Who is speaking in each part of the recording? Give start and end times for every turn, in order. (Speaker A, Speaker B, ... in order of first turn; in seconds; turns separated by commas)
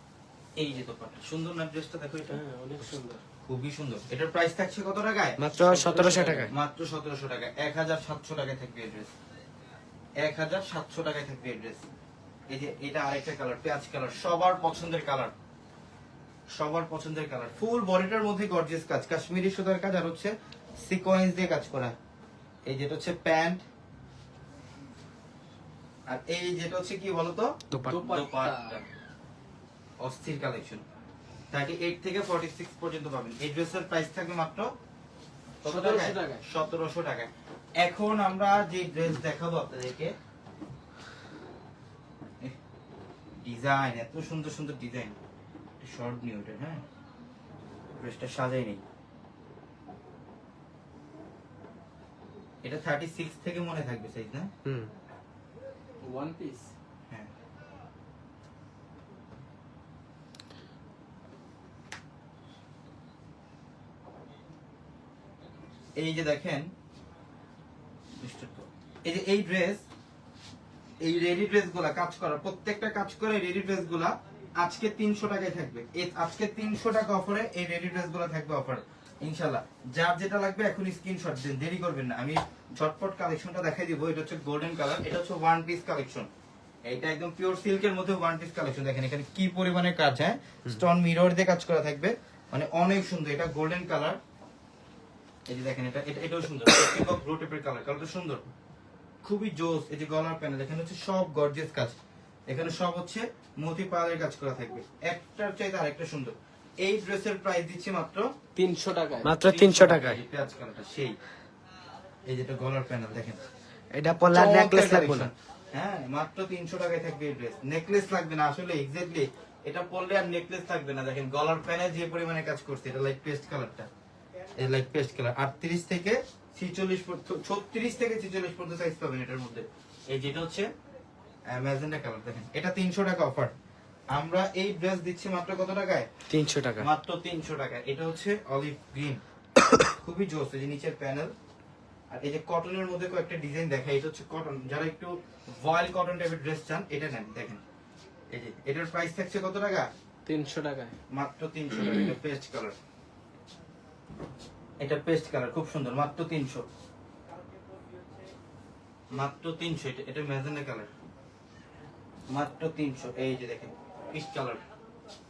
Speaker A: 0.6-2.4, Speaker B: 2.3-3.2, Speaker A: 3.5-9.1, Speaker C: 5.4-6.5, Speaker B: 5.7-6.5, Speaker A: 10.2-11.8, Speaker A: 12.5-15.3, Speaker A: 16.6-22.0, Speaker A: 22.7-23.6, Speaker A: 26.1-28.9, Speaker C: 27.7-28.0, Speaker B: 27.9-28.8, Speaker A: 30.0-30.8, Speaker A: 31.5-34.7, Speaker A: 35.6-40.1, Speaker B: 35.6-36.5, Speaker A: 43.4-45.2, Speaker A: 45.8-46.8, Speaker A: 48.0-48.8, Speaker A: 52.6-54.5, Speaker C: 54.6-54.9, Speaker B: 56.0-56.7, Speaker A: 66.0-66.7, Speaker A: 68.2-69.8, Speaker A: 71.0-86.3, Speaker A: 86.9-94.2, Speaker A: 95.5-98.4, Speaker A: 99.2-102.0, Speaker A: 102.5-108.3, Speaker B: 108.6-109.3, Speaker C: 109.2-110.2, Speaker A: 109.4-111.2, Speaker A: 112.3-113.4, Speaker C: 113.9-115.3, Speaker A: 114.3-123.9, Speaker A: 124.6-130.7, Speaker A: 131.5-133.5, Speaker A: 134.1-136.1, Speaker C: 136.3-136.9, Speaker A: 136.8-139.2, Speaker A: 140.0-141.3, Speaker A: 142.1-147.6, Speaker A: 148.3-149.9, Speaker B: 150.3-151.0, Speaker A: 151.1-152.8, Speaker A: 154.8-156.7, Speaker A: 159.1-160.9, Speaker A: 162.3-164.6